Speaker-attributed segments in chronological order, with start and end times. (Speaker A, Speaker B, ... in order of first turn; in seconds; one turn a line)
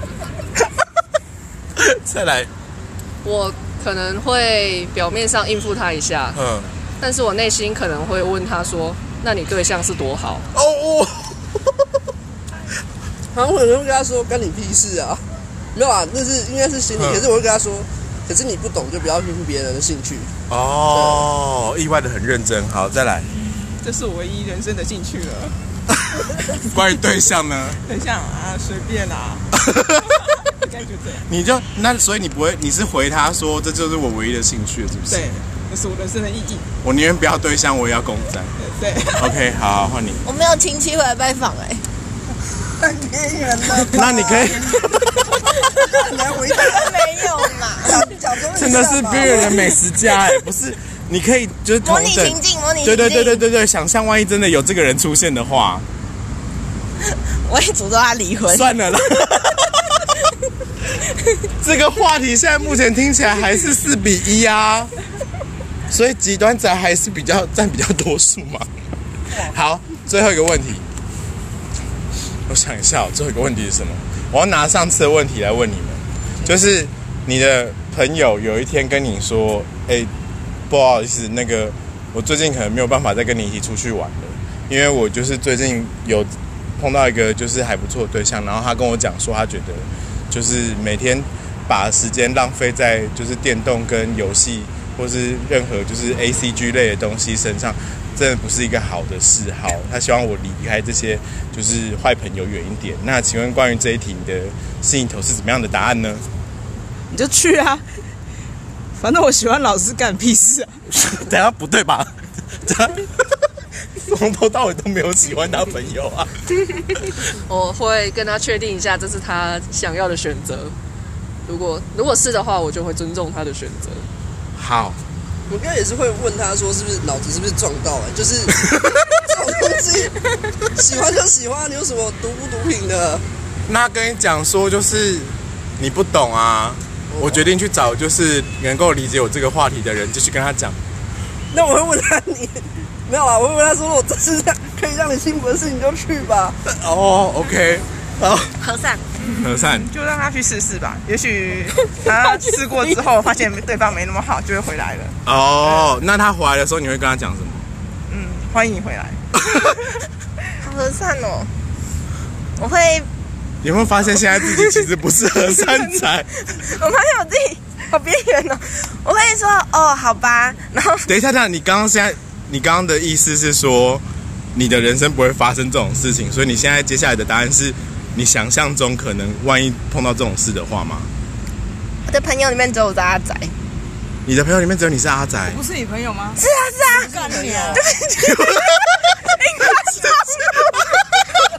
Speaker A: 1.8-2.5
Speaker B: 3.2-6.4
Speaker A: 6.3-6.7
Speaker B: 7.0-10.5
Speaker A: 10.5-11.4
Speaker C: 13.3-15.2
Speaker C: 15.8-20.3
Speaker A: 17.0-17.3
Speaker A: 20.5-23.3
Speaker C: 20.9-21.3
Speaker D: 23.8-25.6
Speaker A: 26.2-27.8
Speaker D: 27.8-29.5
Speaker A: 29.6-30.0
Speaker D: 30.5-31.2
Speaker A: 31.3-35.3
Speaker D: 35.1-36.7
Speaker A: 36.8-38.5
Speaker D: 38.6-39.3
Speaker A: 39.2-40.2
Speaker E: 40.2-41.8
Speaker C: 42.8-44.8
Speaker A: 43.9-45.2
Speaker C: 45.4-49.6
Speaker E: 46.5-48.0
Speaker A: 48.5-55.9
Speaker E: 51.8-53.4
Speaker E: 57.0-58.7
Speaker A: 58.5-59.9
Speaker A: 61.6-64.9
Speaker A: 65.9-68.7
Speaker A: 69.3-70.9
Speaker A: 72.5-80.1
Speaker A: 80.7-106.2
Speaker F: 107.1-107.8
Speaker F: 109.0-110.7
Speaker A: 110.9-113.1
Speaker A: 114.0-116.3
Speaker B: 117.5-120.8
Speaker B: 121.5-124.1
Speaker A: 124.5-125.0
Speaker C: 125.5-128.6
Speaker A: 128.7-129.1
Speaker C: 129.2-130.2
Speaker C: 130.7-133.2
Speaker A: 133.7-140.8
Speaker C: 137.1-137.5
Speaker C: 141.5-146.6
Speaker A: 146.7-148.5
Speaker E: 148.6-149.0
Speaker D: 149.2-155.1
Speaker A: 149.3-149.9
Speaker A: 155.2-157.7
Speaker D: 158.1-159.2
Speaker E: 160.6-161.5
Speaker E: 162.6-163.1
Speaker A: 163.6-166.4
Speaker E: 166.5-171.1
Speaker A: 171.1-174.0
Speaker A: 174.5-181.1
Speaker E: 182.1-183.5
Speaker A: 184.3-185.6
Speaker F: 185.5-187.8
Speaker E: 186.4-188.3
Speaker C: 187.2-187.8
Speaker A: 188.2-189.0
Speaker E: 189.3-191.1